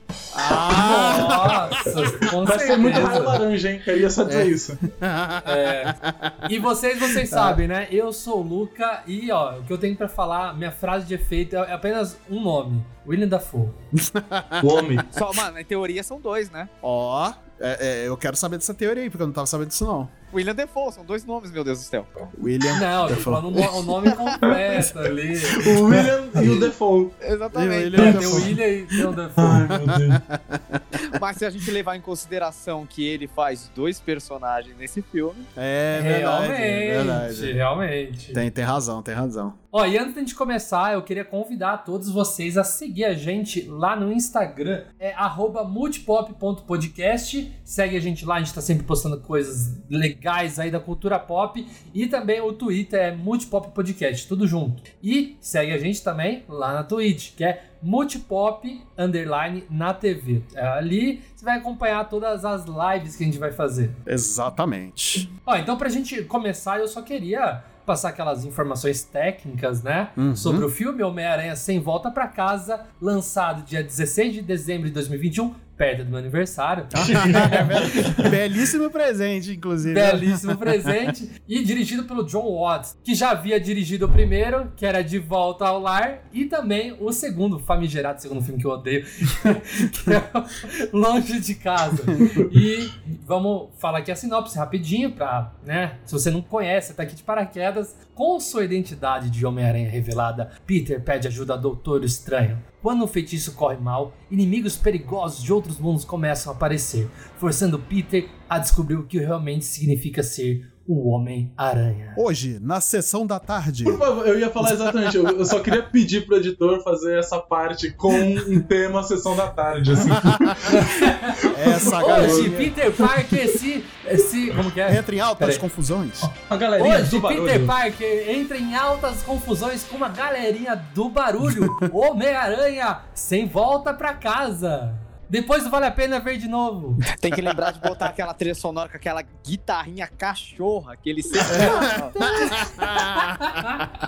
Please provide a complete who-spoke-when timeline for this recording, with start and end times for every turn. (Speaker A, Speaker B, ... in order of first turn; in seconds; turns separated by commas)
Speaker A: 0.3-1.6, Speaker B: 0.4-3.3, Speaker C: 0.7-3.4, Speaker D: 2.3-4.8, Speaker B: 4.3-6.5, Speaker C: 5.5-13.8, Speaker B: 7.1-7.6, Speaker B: 13.9-15.1, Speaker D: 14.6-15.1, Speaker A: 15.1-16.7, Speaker B: 16.8-20.1, Speaker A: 20.3-22.3, Speaker B: 22.4-24.0, Speaker C: 22.7-25.8, Speaker A: 24.1-24.5, Speaker D: 25.6-27.1, Speaker B: 25.9-26.7, Speaker A: 27.2-28.2, Speaker B: 27.5-28.5, Speaker C: 28.0-29.7, Speaker D: 28.0-28.5, Speaker B: 29.1-31.1, Speaker D: 29.4-30.2, Speaker A: 31.1-35.5, Speaker B: 35.6-37.5, Speaker C: 35.9-38.4, Speaker B: 38.3-39.6, Speaker C: 39.7-64.0, Speaker B: 64.1-65.3, Speaker C: 65.4-78.2, Speaker B: 70.2-70.7, Speaker B: 76.9-81.1, Speaker D: 77.0-78.3, Speaker C: 79.9-112.2, Speaker B: 112.2-114.0, Speaker D: 113.8-123.2, Speaker B: 114.6-115.6, Speaker B: 120.2-120.7, Speaker C: 120.6-125.7, Speaker B: 121.5-122.5, Speaker B: 124.9-126.3, Speaker D: 126.4-127.7, Speaker C: 126.8-137.0, Speaker B: 131.4-131.8, Speaker A: 137.1-142.6, Speaker B: 137.3-137.9, Speaker B: 141.5-143.8, Speaker C: 141.5-143.9